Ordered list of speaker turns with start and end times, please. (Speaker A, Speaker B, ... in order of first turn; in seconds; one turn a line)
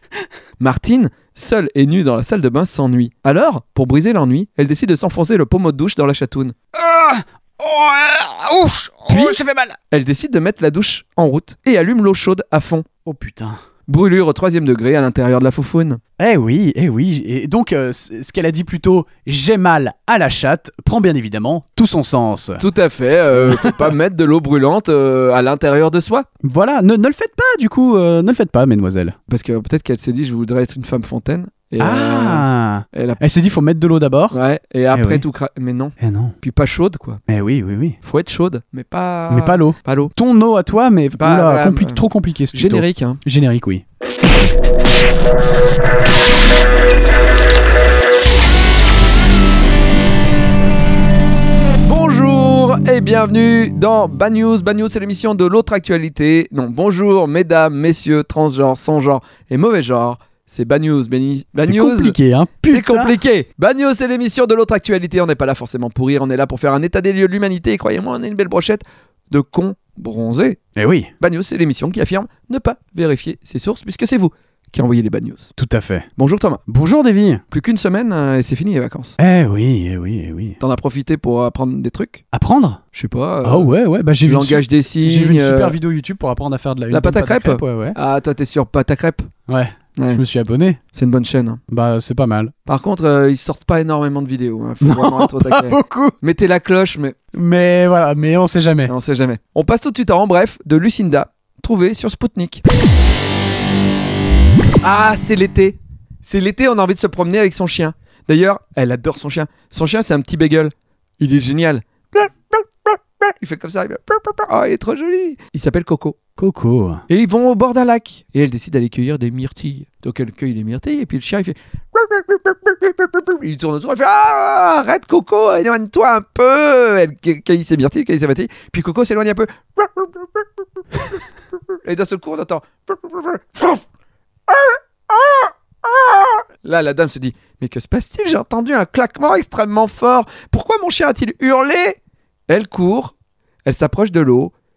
Speaker A: 0.6-6.5
Speaker B: 6.7-9.8
Speaker A: 9.1-9.4
Speaker A: 9.9-12.8
Speaker B: 13.1-13.6
Speaker A: 13.9-16.0
Speaker B: 16.2-22.6
Speaker A: 22.6-26.2
Speaker B: 23.3-23.9
Speaker B: 26.4-29.1
Speaker A: 29.3-33.2
Speaker B: 31.8-34.4
Speaker A: 34.3-37.2
Speaker B: 34.9-35.2
Speaker B: 36.0-36.3
Speaker B: 37.3-38.0
Speaker A: 38.0-40.1
Speaker B: 39.3-43.8
Speaker A: 41.1-43.2
Speaker A: 51.8-70.6
Speaker B: 61.6-63.1
Speaker B: 70.8-71.1
Speaker A: 71.2-75.5
Speaker B: 75.6-76.1
Speaker A: 76.2-76.6
Speaker B: 76.7-77.4
Speaker A: 77.5-79.2
Speaker B: 79.2-80.6
Speaker A: 80.6-82.2
Speaker B: 82.3-82.8
Speaker A: 82.9-83.7
Speaker B: 83.4-88.0
Speaker A: 84.2-85.7
Speaker A: 86.9-89.3
Speaker B: 89.5-90.8
Speaker A: 90.0-90.2
Speaker A: 90.9-91.6
Speaker B: 91.7-92.5
Speaker A: 92.7-97.2
Speaker B: 94.8-96.1
Speaker B: 97.3-98.9
Speaker A: 98.9-102.6
Speaker A: 104.8-116.2
Speaker B: 116.4-117.0
Speaker A: 117.1-130.5
Speaker A: 131.8-133.8
Speaker A: 134.5-142.0
Speaker A: 142.5-144.5